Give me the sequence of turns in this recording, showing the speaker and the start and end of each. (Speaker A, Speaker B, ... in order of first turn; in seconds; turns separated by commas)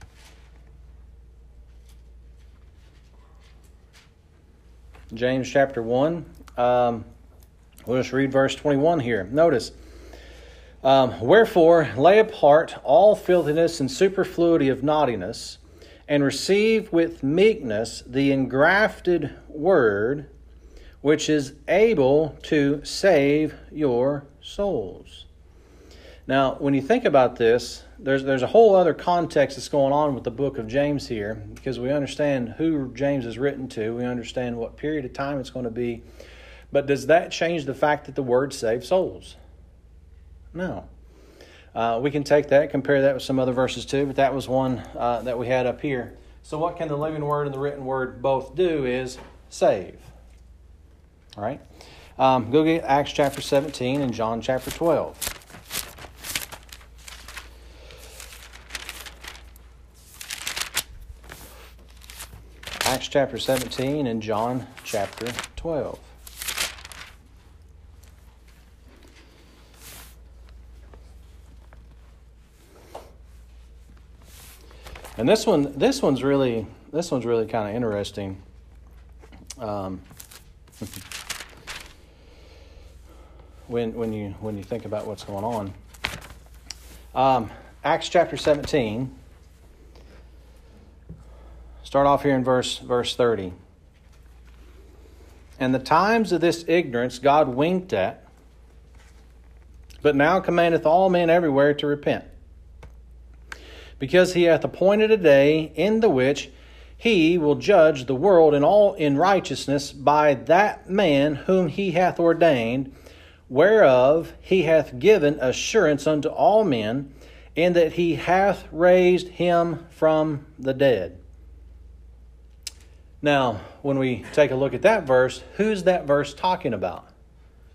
Speaker A: 5.1-7.1, Speaker A: 7.9-9.8, Speaker A: 10.8-20.3, Speaker A: 21.0-25.3, Speaker A: 26.3-36.0, Speaker A: 36.7-39.4, Speaker A: 40.5-40.9, Speaker A: 41.7-50.1, Speaker A: 51.4-51.6, Speaker A: 52.2-55.3, Speaker A: 62.8-66.1, Speaker A: 75.2-78.4, Speaker A: 79.6-80.0, Speaker A: 83.7-85.7, Speaker A: 87.1-89.1, Speaker A: 91.8-93.5, Speaker A: 95.6-98.2, Speaker A: 100.0-102.3, Speaker A: 104.0-112.9, Speaker A: 113.5-121.2, Speaker A: 123.2-127.1